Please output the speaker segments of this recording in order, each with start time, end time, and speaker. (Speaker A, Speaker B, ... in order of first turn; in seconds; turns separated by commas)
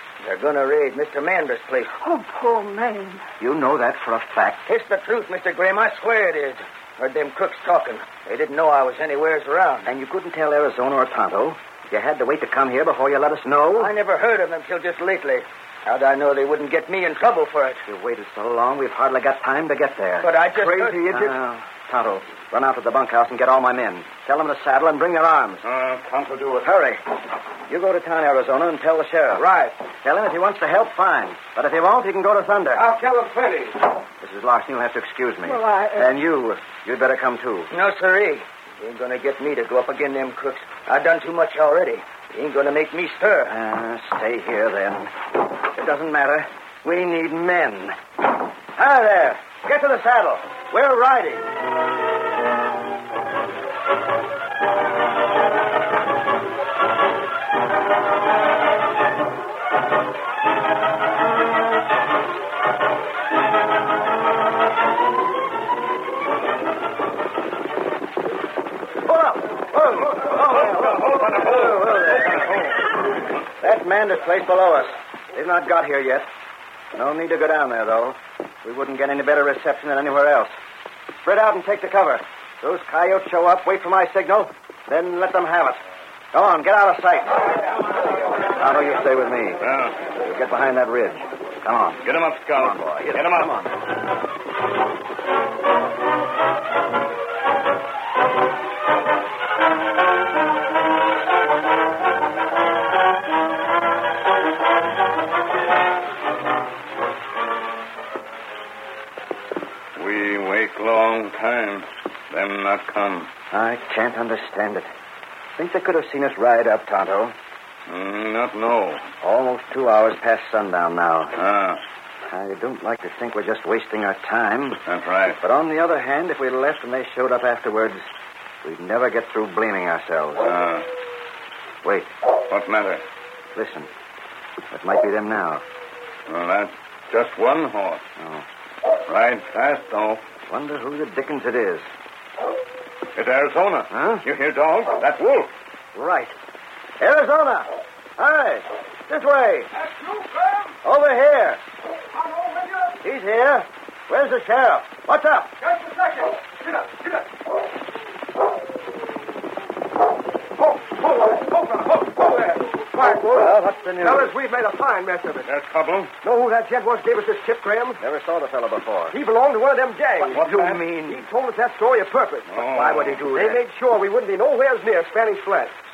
Speaker A: 0.2-1.9, Speaker B: 2.0-3.2, Speaker C: 3.4-4.7, Speaker A: 4.7-9.9, Speaker C: 9.9-13.9, Speaker A: 13.8-17.8, Speaker C: 17.9-25.6, Speaker A: 20.2-21.3, Speaker D: 25.6-26.7, Speaker C: 26.6-27.0, Speaker C: 27.7-29.4, Speaker E: 29.4-29.8, Speaker C: 30.0-32.9, Speaker E: 32.7-33.8, Speaker C: 34.2-37.7, Speaker B: 35.5-36.1, Speaker A: 37.7-43.5, Speaker C: 43.5-48.0, Speaker C: 48.7-51.5, Speaker C: 69.0-72.7, Speaker D: 70.9-71.9, Speaker C: 73.6-76.3, Speaker C: 76.9-80.5, Speaker C: 81.2-85.8, Speaker C: 86.3-87.5, Speaker C: 88.5-93.8, Speaker D: 89.6-90.0, Speaker D: 92.0-93.6, Speaker D: 110.0-113.3, Speaker C: 113.5-114.9, Speaker C: 115.6-117.4, Speaker D: 117.9-119.1, Speaker C: 119.2-121.4, Speaker D: 121.4-121.8, Speaker C: 122.3-124.8, Speaker D: 124.9-125.4, Speaker C: 125.4-128.1, Speaker C: 128.6-130.5, Speaker D: 130.4-130.9, Speaker C: 131.8-132.1, Speaker D: 132.5-133.0, Speaker C: 133.6-133.9, Speaker C: 134.7-135.6, Speaker D: 136.3-138.0, Speaker C: 138.2-138.4, Speaker D: 139.1-140.2, Speaker C: 140.5-141.9, Speaker D: 143.2-145.5, Speaker C: 143.9-144.2, Speaker C: 145.9-146.4, Speaker C: 147.0-149.7, Speaker E: 149.8-150.8, Speaker C: 150.8-151.6, Speaker E: 152.1-153.0, Speaker C: 153.0-155.5, Speaker E: 155.6-157.3, Speaker E: 160.6-165.5, Speaker C: 163.2-164.3, Speaker D: 165.4-166.1, Speaker E: 166.2-168.0, Speaker C: 168.0-169.2, Speaker E: 169.1-175.7, Speaker C: 170.3-171.2, Speaker D: 170.3-171.0, Speaker D: 172.5-173.3, Speaker C: 172.8-173.6